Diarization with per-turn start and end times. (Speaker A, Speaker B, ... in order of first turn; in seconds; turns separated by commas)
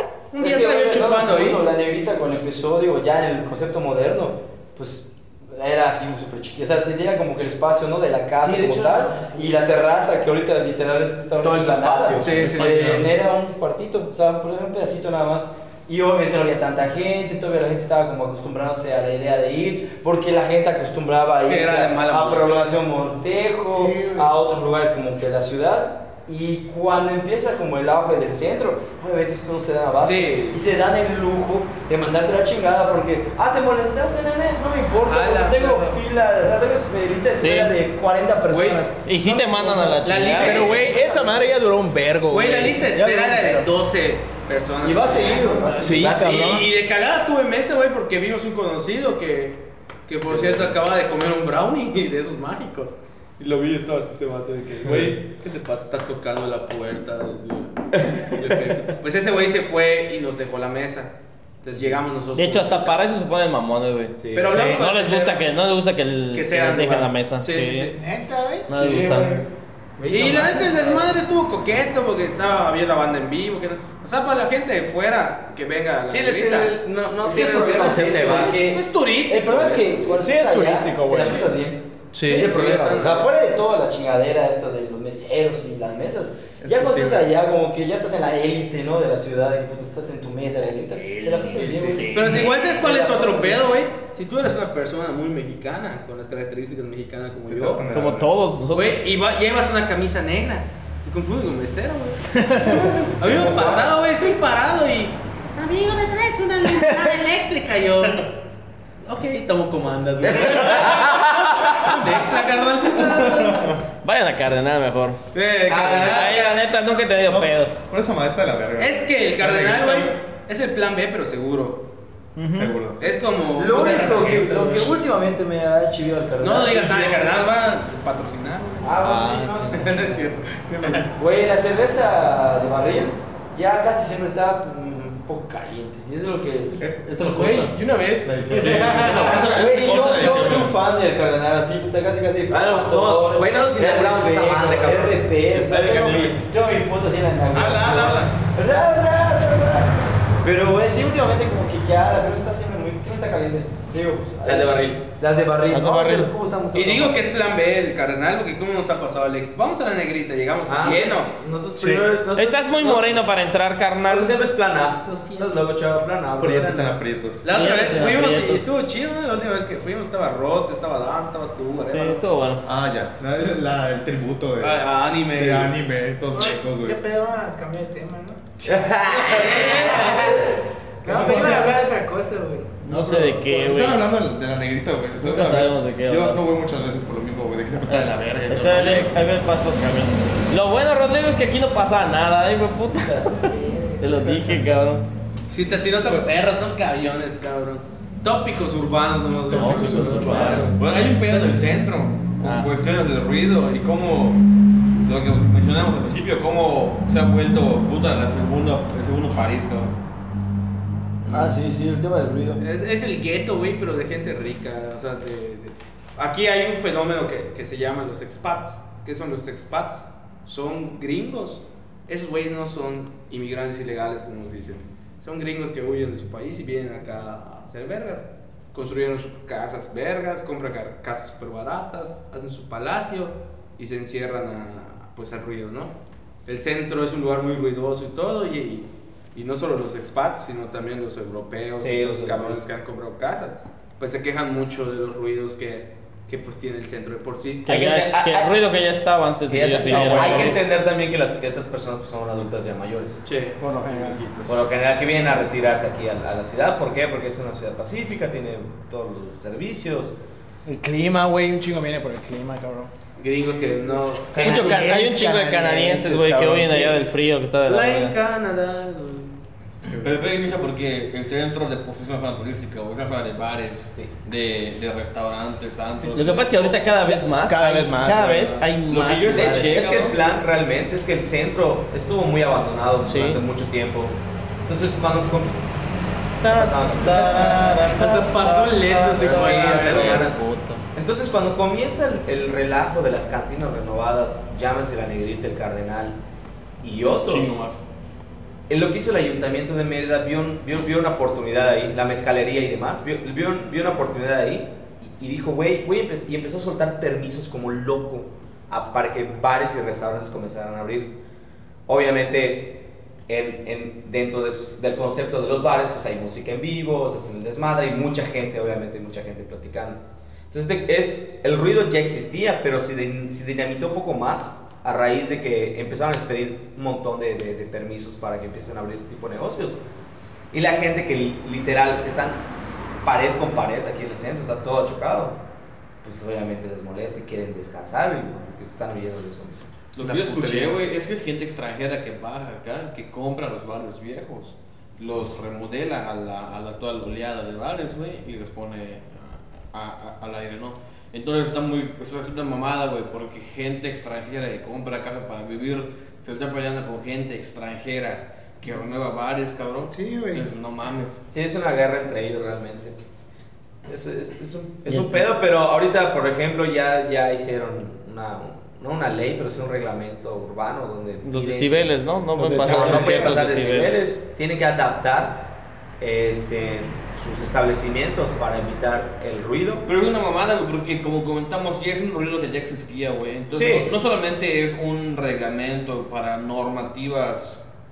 Speaker A: 0.3-1.6, Speaker B: 0.4-40.4, Speaker C: 8.4-9.3, Speaker C: 11.4-12.5, Speaker A: 12.2-13.1, Speaker D: 12.3-13.1, Speaker A: 21.4-22.6, Speaker E: 23.7-24.3, Speaker A: 30.0-30.6, Speaker A: 35.0-36.0, Speaker F: 37.3-37.8, Speaker A: 38.5-38.9, Speaker F: 39.1-40.8, Speaker A: 40.0-41.3, Speaker G: 40.4-43.7, Speaker B: 41.0-41.2, Speaker A: 42.3-63.0, Speaker B: 44.8-46.2, Speaker G: 45.8-46.7, Speaker F: 62.4-67.9, Speaker A: 64.2-65.5, Speaker C: 64.2-64.7, Speaker A: 66.3-68.0, Speaker E: 68.0-68.7, Speaker F: 68.7-69.4, Speaker C: 70.0-71.0, Speaker A: 70.1-80.1, Speaker C: 76.1-78.8, Speaker B: 77.2-93.8, Speaker G: 80.1-81.5, Speaker A: 82.1-83.3, Speaker D: 86.6-87.3, Speaker F: 90.9-92.6, Speaker A: 92.0-97.9, Speaker D: 97.5-98.3, Speaker F: 97.9-99.1, Speaker A: 98.7-108.3, Speaker D: 103.2-104.0, Speaker A: 109.0-113.8, Speaker C: 110.5-110.9, Speaker D: 113.1-113.7, Speaker F: 114.0-115.2, Speaker A: 115.3-116.6, Speaker C: 115.7-116.4, Speaker F: 115.8-117.9, Speaker D: 117.3-120.2, Speaker A: 118.8-121.9, Speaker G: 122.3-122.8, Speaker D: 122.5-123.2, Speaker A: 123.0-124.8, Speaker B: 123.5-127.4, Speaker C: 123.8-124.8, Speaker A: 126.4-131.1, Speaker B: 128.8-130.4, Speaker B: 131.0-137.7, Speaker D: 136.8-140.8, Speaker A: 137.2-139.4, Speaker B: 138.5-157.2, Speaker C: 142.5-145.3, Speaker F: 145.5-146.3, Speaker A: 147.5-148.3, Speaker C: 154.4-155.0, Speaker F: 155.7-156.3, Speaker A: 156.7-161.4, Speaker C: 160.7-163.2, Speaker G: 161.8-162.1, Speaker F: 162.3-164.4, Speaker C: 164.1-166.9, Speaker A: 165.1-165.6, Speaker D: 166.4-167.5, Speaker A: 167.4-172.2, Speaker F: 167.5-168.8, Speaker F: 171.8-172.6, Speaker D: 172.6-177.0, Speaker A: 174.6-175.7, Speaker E: 176.3-178.4, Speaker C: 178.6-180.3, Speaker A: 179.1-180.5, Speaker E: 179.5-182.8, Speaker A: 181.1-181.7, Speaker D: 181.2-181.5, Speaker F: 182.9-184.1, Speaker D: 182.9-189.2, Speaker F: 185.2-186.4, Speaker F: 187.9-195.1, Speaker E: 193.5-194.3, Speaker A: 195.5-201.7, Speaker D: 199.5-200.8, Speaker F: 199.5-200.6, Speaker H: 200.4-204.4, Speaker F: 202.4-202.7, Speaker H: 205.1-210.0, Speaker B: 211.3-212.6, Speaker A: 212.6-235.9, Speaker A: 236.5-247.7, Speaker C: 241.8-242.6, Speaker F: 247.7-250.6, Speaker C: 247.7-248.5, Speaker C: 249.5-253.2, Speaker G: 250.0-250.4, Speaker A: 250.0-250.4, Speaker A: 253.2-253.6, Speaker G: 253.6-254.6, Speaker C: 254.5-260.1, Speaker G: 260.6-262.9, Speaker A: 263.2-265.0, Speaker G: 264.3-267.0, Speaker F: 264.4-268.1, Speaker A: 267.7-269.4, Speaker H: 269.9-276.6, Speaker F: 276.0-280.0, Speaker G: 277.1-278.7, Speaker H: 278.9-280.2, Speaker C: 279.3-285.6, Speaker F: 283.1-283.4, Speaker F: 286.4-290.9, Speaker C: 286.4-288.0, Speaker A: 287.9-290.3, Speaker C: 289.1-290.4, Speaker C: 290.9-296.2, Speaker C: 296.8-297.6, Speaker H: 297.2-297.8, Speaker C: 298.7-311.1, Speaker C: 311.9-329.8, Speaker C: 330.5-332.4, Speaker C: 333.0-335.4, Speaker C: 336.0-339.8, Speaker H: 339.9-361.2, Speaker D: 340.0-340.8, Speaker E: 359.9-360.5, Speaker C: 361.3-363.0, Speaker C: 363.9-375.5, Speaker F: 364.9-365.3, Speaker F: 371.2-374.1, Speaker G: 372.4-373.3, Speaker C: 376.0-379.9, Speaker H: 379.9-387.6, Speaker C: 383.5-383.9